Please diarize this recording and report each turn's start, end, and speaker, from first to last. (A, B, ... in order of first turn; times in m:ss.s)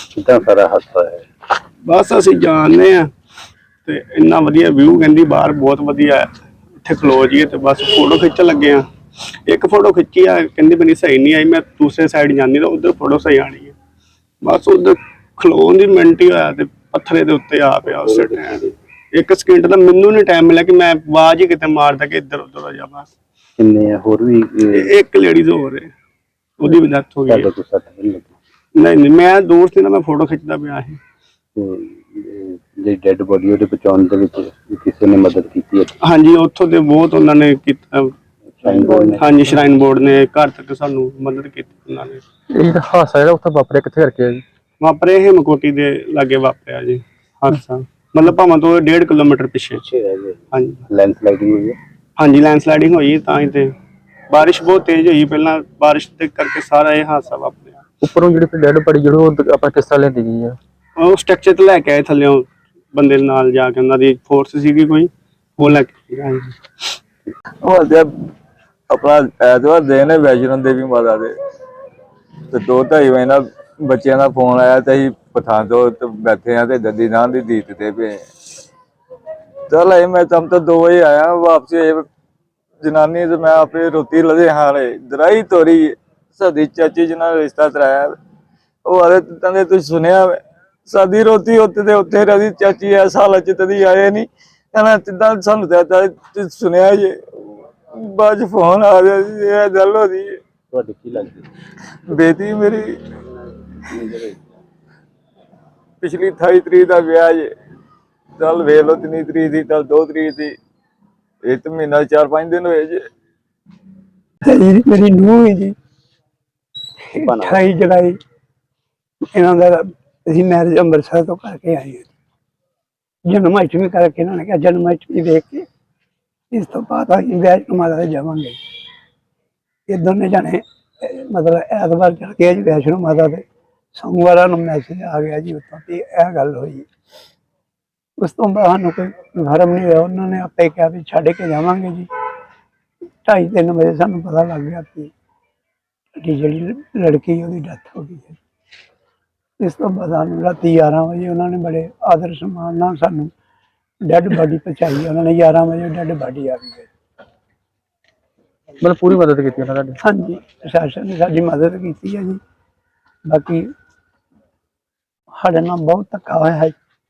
0:00.1-0:01.2 A
0:01.8-0:03.1 B
0:03.8-0:08.8 B
0:09.5-0:13.8 B
0:14.4-0:23.1 B
0:23.6-0:24.9 A
0:24.7-0:25.9 B
0:26.6-0:27.5 B
0:27.3-0:28.4 A
0:28.7-0:31.0 B
0:31.6-0:35.9 A
0:36.0-0:38.1 B
0:38.6-0:39.4 A
0:39.2-0:42.2 B
0:42.6-0:44.4 C
0:44.8-0:49.8 B
0:49.8-0:51.8 A
0:50.5-0:50.8 B
0:52.2-0:53.7 B
0:54.3-0:57.8 B
0:58.0-1:00.6 C
1:01.0-1:06.6 B
1:07.6-1:08.1 D
1:08.9-1:11.3 D
1:12.5-1:18.2 D
1:19.7-1:22.0 D
1:22.8-1:28.1 D
1:28.8-1:40.3 D
1:40.7-1:41.5 A
1:42.1-1:42.9 D
1:43.9-1:44.4 A
1:46.0-1:47.5 D
1:48.4-1:50.5 D
1:51.4-1:53.0 D
1:54.4-1:55.7 E
1:57.1-1:58.2 E
1:57.2-1:57.6 A
1:59.3-2:02.1 E
2:03.3-2:05.6 E
2:06.5-2:08.6 E
2:09.9-2:13.4 E
2:13.9-2:16.8 E
2:18.2-2:22.1 E
2:23.2-2:25.1 E
2:26.2-2:28.4 E
2:29.6-2:33.3 E
2:34.0-2:36.9 E
2:38.8-2:40.0 C
2:40.0-2:42.4 E
2:43.3-2:43.7 E
2:45.4-2:46.7 E